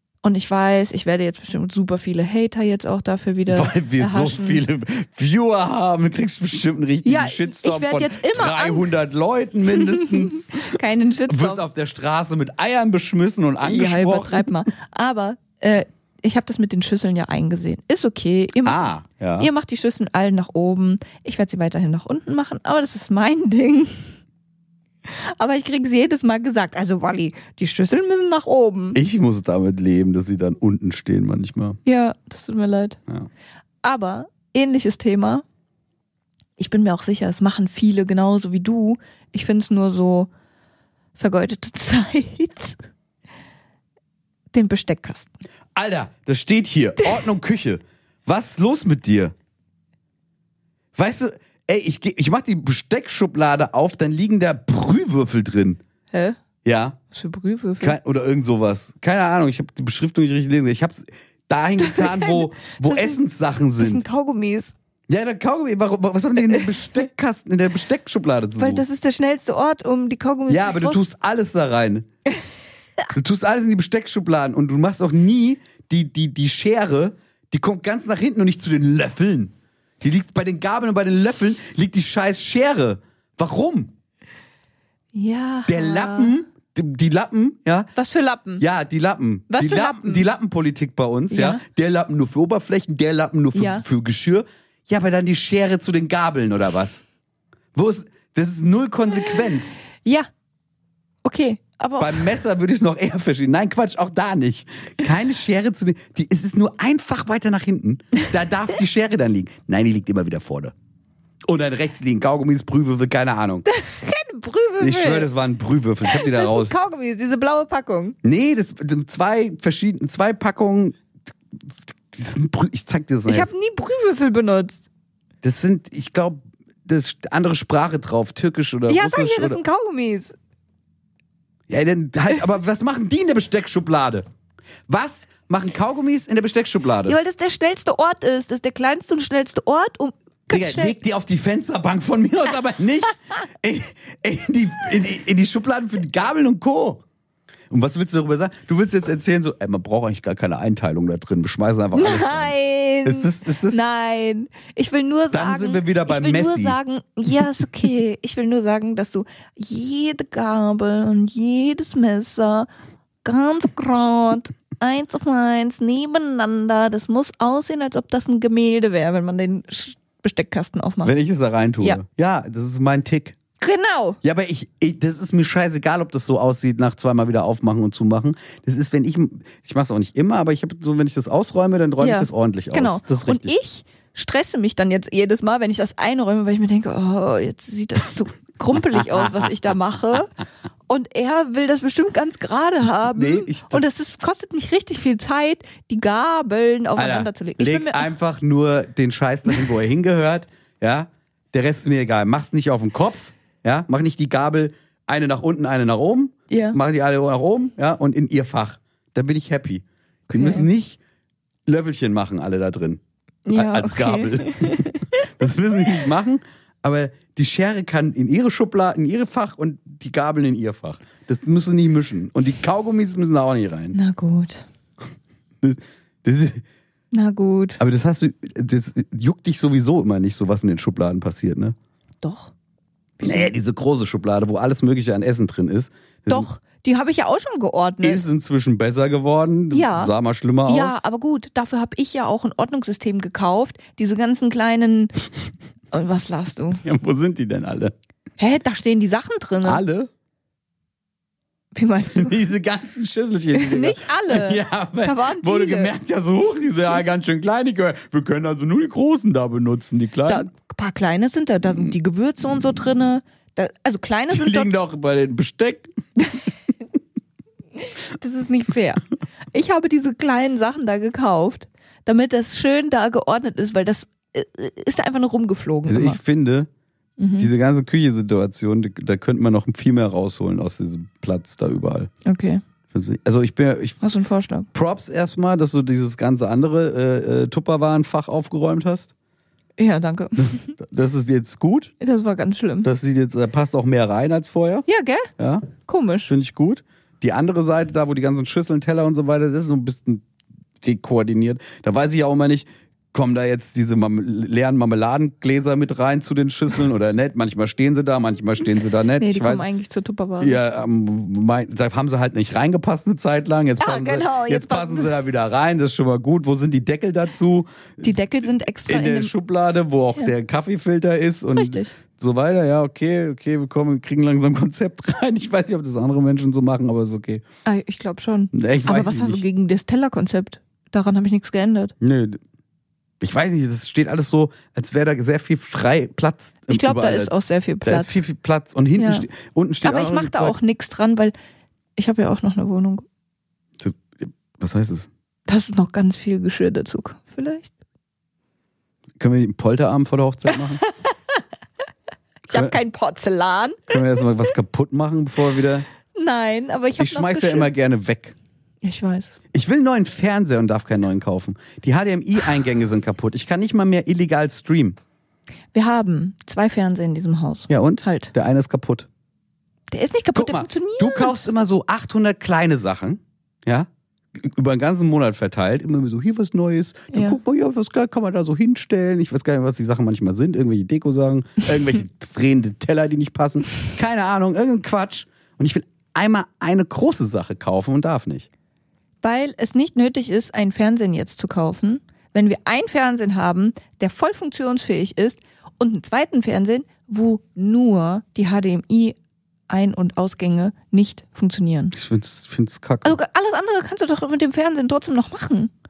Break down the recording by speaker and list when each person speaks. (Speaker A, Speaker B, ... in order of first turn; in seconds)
Speaker A: 0.2-4.6, 7.0-8.9, 9.7-11.6, 13.6-24.1, 25.0-29.0, 31.8-33.0, 33.8-35.4, 36.6-40.3, 41.1-42.8, 44.5-45.4, 56.1-56.4, 57.1-58.0, 61.8-63.2, 63.8-64.7, 68.6-71.0, 85.1-86.4, 88.0-88.6, 89.5-90.2, 91.3-91.6, 93.5-93.8, 101.2-102.2, 113.7-115.3, 116.0-118.2, 123.2-124.8, 128.9-130.3, 137.0-140.9, 151.9-162.7, 163.2-171.1, 173.6-174.2, 182.0-190.3, 190.9-198.1, 206.5-206.8, 210.3-210.7, 213.4-215.2, 223.9-224.7, 227.1-227.8, 232.2-232.5, 233.2-233.5, 236.3-238.2, 239.7-240.1, 240.7-245.1, 245.9-246.8, 248.4-249.8, 251.7-252.4, 253.5-255.9, 260.2-264.7, 267.8-276.2, 277.2-277.5, 282.2-282.6, 284.0-284.7, 289.8-290.6, 292.0-292.9, 294.9-295.3, 295.8-296.3, 309.2-310.6, 313.8-315.1, 318.0-319.3, 321.5-321.9, 327.6-331.9, 336.7-338.2, 339.0-339.3, 339.8-341.3, 341.9-343.0, 345.4-347.7, 350.5-351.1, 352.5-354.0, 356.1-357.7, 358.8-359.3, 365.7-368.3, 369.9-371.5, 377.1-377.4, 389.2-399.2, 399.7-401.9, 403.0-405.7
Speaker B: 3.5-14.5, 18.6-19.5, 28.9-31.8, 45.7-49.3, 51.0-55.8, 56.6-57.0, 57.8-64.0, 65.1-68.8, 70.5-72.1, 73.1-83.9, 85.7-87.9, 88.6-97.0, 97.7-99.7, 102.0-110.7, 111.5-113.7, 114.8-116.7, 118.2-121.0, 121.9-123.5, 125.4-129.6, 131.7-134.2, 134.9-137.2, 140.5-147.0, 147.7-152.5, 153.0-153.8, 155.3-156.8, 171.0-173.4, 174.2-183.5, 193.1-193.8, 196.9-211.0, 211.7-213.0, 213.5-224.0, 225.6-226.6, 227.8-231.7, 233.2-236.5, 238.0-241.0, 246.8-247.9, 249.6-250.1, 252.1-260.4, 264.3-265.9, 275.9-276.7, 277.4-282.1, 282.9-284.0, 284.7-289.1, 290.4-291.9, 292.8-294.9, 295.4-295.7, 296.3-300.2, 300.8-309.6, 310.4-318.2, 318.9-327.4, 328.5-329.4, 332.0-332.4, 333.2-340.6, 343.8-345.1, 349.2-350.8, 352.5-352.8, 353.9-355.9, 357.0-358.3, 359.5-365.0, 367.7-369.1, 370.3-388.5, 401.9-403.2